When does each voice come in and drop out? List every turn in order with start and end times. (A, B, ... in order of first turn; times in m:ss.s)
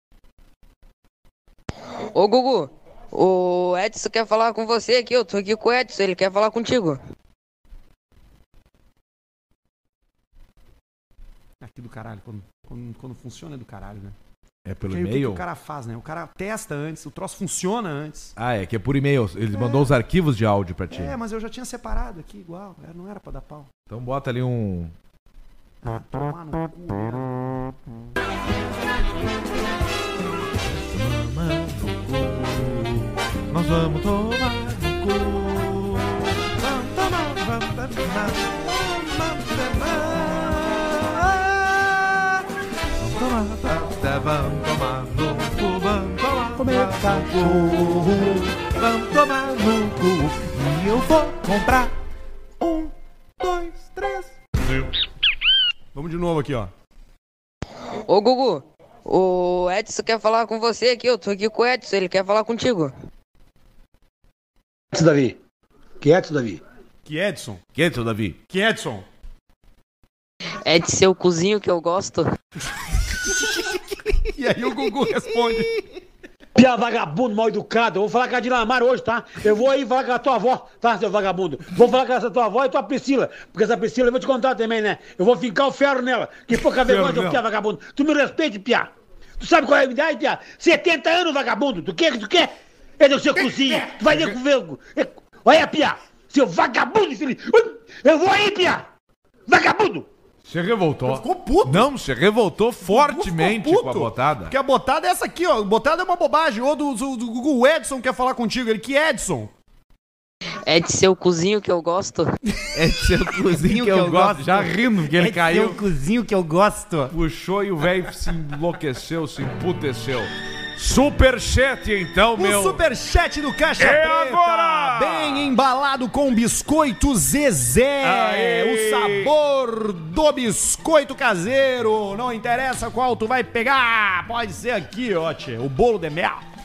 0:02.2-0:07.0 A
0:11.6-0:14.2 B
0:14.6-0:15.4 C
0:14.8-0:18.4 B
0:18.4-0:21.2 C
0:19.5-0:19.9 B
0:20.9-0:23.7 B
0:23.9-0:24.9 C
0:25.8-0:27.4 B
0:30.7-0:52.0 C
0:46.6-0:48.5 B
0:52.6-0:54.4 C
0:55.9-0:56.7 B
0:58.1-1:02.9 A
1:04.9-1:05.4 D
1:06.0-1:06.6 D
1:07.0-1:07.6 B
1:07.8-1:08.4 C
1:08.5-1:09.0 B
1:10.6-1:12.3 A
1:13.3-1:15.8 B
1:13.5-1:13.8 C
1:15.1-1:15.8 C
1:16.6-1:38.9 D
1:26.8-1:27.4 C
1:39.5-1:40.1 D
1:40.4-1:44.6 C
1:41.1-1:41.9 B
1:42.9-1:49.5 B
1:50.6-1:52.3 A
1:52.7-1:55.8 C
1:53.3-1:57.2 B
1:57.1-2:02.8 C
2:02.4-2:16.4 B
2:03.8-2:05.6 C
2:08.0-2:09.3 C